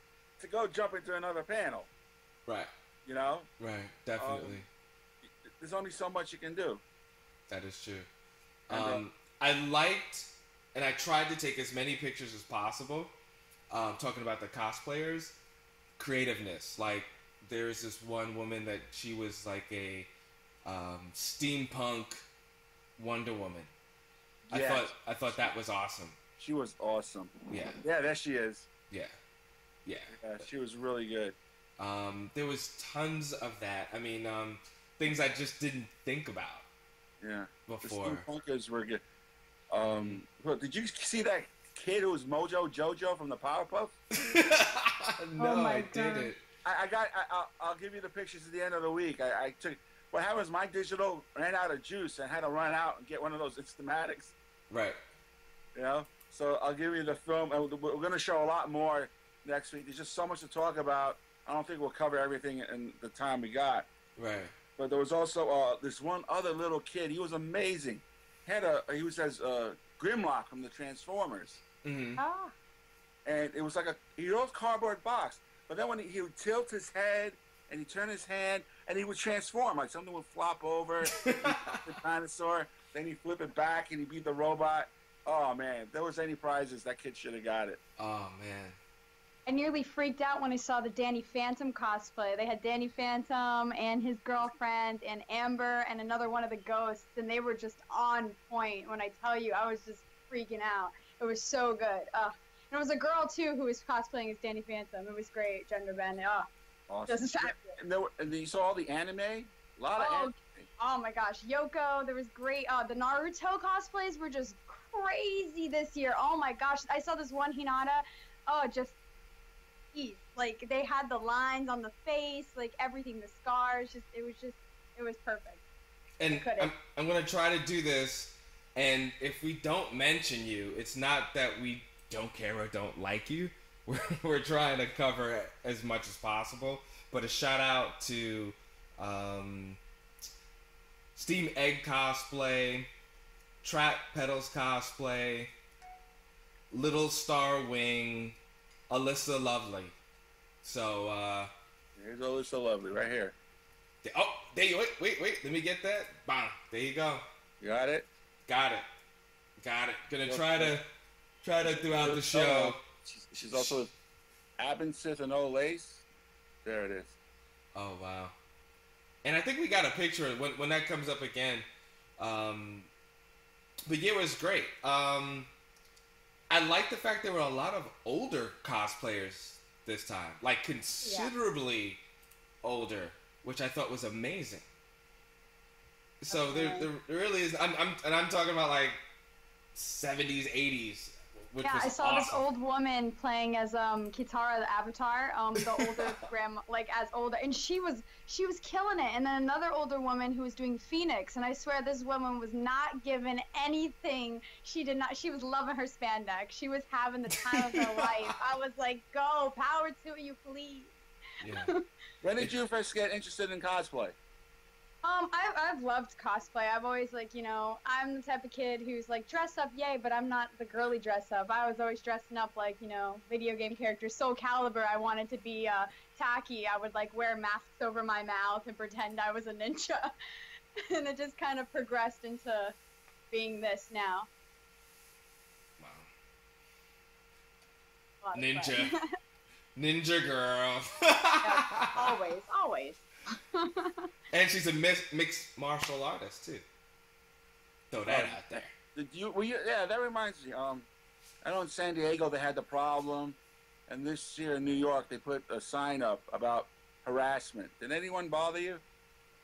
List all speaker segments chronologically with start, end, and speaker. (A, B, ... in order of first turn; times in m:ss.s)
0:00.4-0:01.9 A
0:03.0-0:03.5 A
0:03.6-0:04.7 B
0:04.2-0:04.6 A
0:05.2-0:06.8 A
0:07.5-0:08.1 B
0:08.7-0:13.1 B
0:08.7-0:09.0 A
0:13.7-0:15.4 B
0:16.0-0:20.1 B
0:20.6-0:22.2 B
0:23.0-0:23.7 B
0:24.5-0:25.5 A
0:24.5-0:26.2 B
0:26.4-0:28.7 A
0:27.5-0:27.8 B
0:29.9-0:30.2 B
0:30.1-0:31.4 A
0:31.8-0:36.7 B
0:37.2-0:39.0 A
0:37.7-0:38.3 B
0:39.7-0:44.0 A
0:39.9-0:40.2 B
0:44.3-0:46.4 B
0:45.4-0:46.3 C
0:46.6-0:54.4 A
0:54.7-0:55.0 B
0:55.8-1:03.9 A
1:04.2-1:04.5 B
1:04.8-1:11.6 A
1:11.8-1:12.2 B
1:12.2-1:12.5 C
1:13.2-1:27.8 A
1:21.2-1:21.8 B
1:28.0-1:28.8 B
1:29.5-1:46.5 C
1:46.9-1:50.7 A
1:47.1-1:47.8 C
1:50.0-1:59.0 C
1:59.9-2:05.6 C
2:06.2-2:19.8 B
2:06.3-2:06.7 C
2:21.2-2:22.9 B
2:23.6-2:25.5 B
2:26.7-2:28.4 B
2:28.9-2:30.0 B
2:30.6-2:31.5 B
2:32.0-2:33.4 A
2:34.0-2:37.2 B
2:37.6-2:38.1 A
2:38.5-2:38.9 B
2:39.6-2:40.9 B
2:40.2-2:40.8 A
2:41.4-2:42.8 B
2:41.6-2:43.9 A
2:43.5-2:43.8 B
2:44.6-2:46.0 A
2:46.6-2:47.2 A
2:47.8-2:48.3 B
2:49.2-2:51.7 B
2:52.2-2:52.9 B
2:53.9-2:55.5 B
2:56.5-3:02.0 B
3:01.0-3:01.3 C
3:02.6-3:04.6 B
3:06.2-3:09.0 B
3:06.3-3:06.9 C
3:09.8-3:12.4 B
3:11.6-3:30.9 C
3:15.6-3:16.2 B
3:27.6-3:28.0 B
3:31.4-3:31.7 B
3:32.2-3:34.2 A
3:35.0-3:50.1 C
3:50.9-3:52.8 C
3:53.3-3:54.3 C
3:55.8-3:56.1 B
3:58.2-3:59.0 C
3:58.3-3:58.9 B
3:59.8-4:02.0 B
4:01.4-4:04.0 C
4:04.3-4:06.6 B
4:07.9-4:08.7 B
4:08.1-4:10.9 A
4:11.4-4:18.8 A